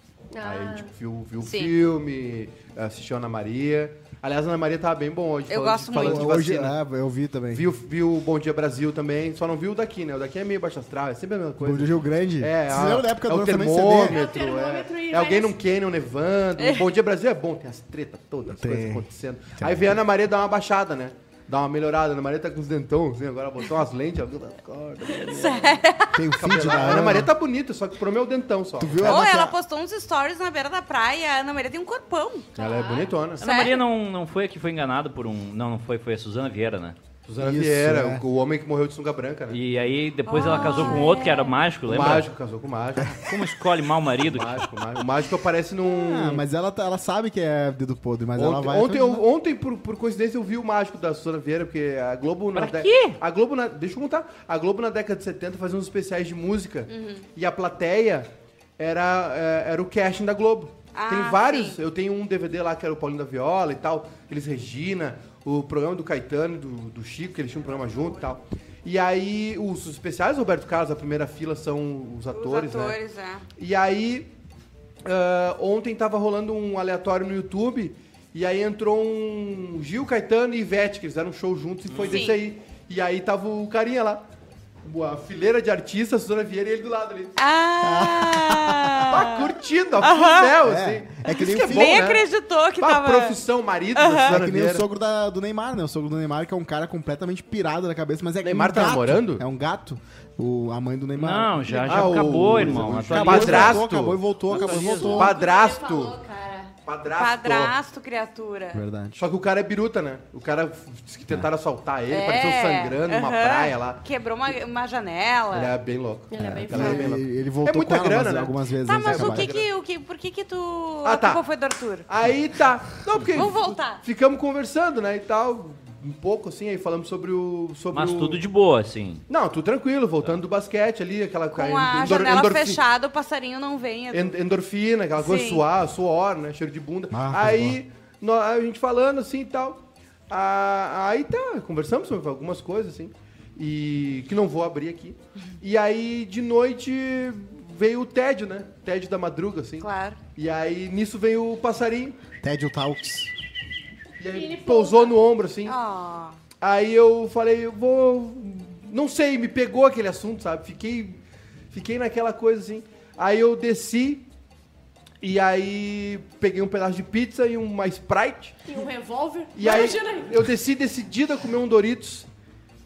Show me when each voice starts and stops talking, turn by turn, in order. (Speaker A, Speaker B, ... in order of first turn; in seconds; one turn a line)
Speaker A: 0.3-0.9
Speaker B: 0.4-6.8
Speaker C: 1.4-1.7
Speaker C: 5.5-6.3
Speaker D: 6.0-7.7
Speaker B: 7.5-29.3
Speaker D: 11.6-14.2
Speaker A: 14.1-15.6
Speaker C: 16.6-16.9
Speaker D: 18.5-19.0
Speaker D: 19.6-20.0
Speaker C: 25.1-26.3
Speaker D: 26.1-27.3
Speaker D: 28.8-29.6
Speaker C: 29.0-32.6
Speaker B: 32.6-33.4
Speaker A: 32.6-33.1
Speaker E: 33.4-37.0
Speaker C: 33.4-33.8
Speaker B: 37.2-39.6
Speaker D: 37.4-38.2
Speaker E: 39.5-42.3
Speaker C: 40.3-41.5
Speaker B: 40.6-41.0
Speaker B: 41.9-43.2
Speaker D: 43.0-43.4
Speaker E: 43.1-44.6
Speaker B: 44.2-46.4
Speaker D: 45.8-49.2
Speaker B: 48.4-73.0
Speaker E: 52.5-53.2
Speaker C: 56.9-57.2
Speaker C: 60.9-61.8
Speaker C: 72.3-73.5
Speaker B: 73.6-74.3
Speaker B: 75.0-84.2
Speaker E: 81.9-82.2
Speaker C: 82.0-82.4
Speaker B: 84.8-87.4
Speaker C: 87.4-90.6
Speaker D: 87.8-89.2
Speaker B: 89.1-92.3
Speaker D: 90.6-92.1
Speaker C: 91.5-93.4
Speaker B: 92.8-94.9
Speaker C: 94.0-94.4
Speaker D: 94.2-105.4
Speaker B: 98.4-99.5
Speaker E: 101.2-103.9
Speaker B: 101.7-106.2
Speaker E: 104.5-105.2
Speaker A: 105.0-106.7
Speaker B: 106.8-107.8
Speaker C: 107.1-108.8
Speaker D: 108.7-109.2
Speaker B: 109.2-114.0
Speaker C: 112.1-115.8
Speaker B: 115.5-119.7
Speaker A: 116.3-117.1
Speaker D: 116.4-119.5
Speaker C: 118.8-122.0
Speaker B: 121.0-121.4
Speaker B: 122.1-128.4
Speaker C: 123.3-124.0
Speaker E: 127.9-129.2
Speaker B: 129.3-132.8
Speaker C: 131.5-134.3
Speaker B: 134.1-152.2
Speaker C: 135.2-135.7
Speaker D: 137.1-137.8
Speaker C: 149.8-150.2
Speaker D: 152.4-153.3
Speaker B: 154.2-155.8
Speaker A: 154.3-155.2
Speaker C: 155.7-156.4
Speaker B: 156.6-161.2
Speaker B: 161.7-164.3
Speaker B: 165.2-168.6
Speaker A: 168.7-170.4
Speaker B: 169.6-172.3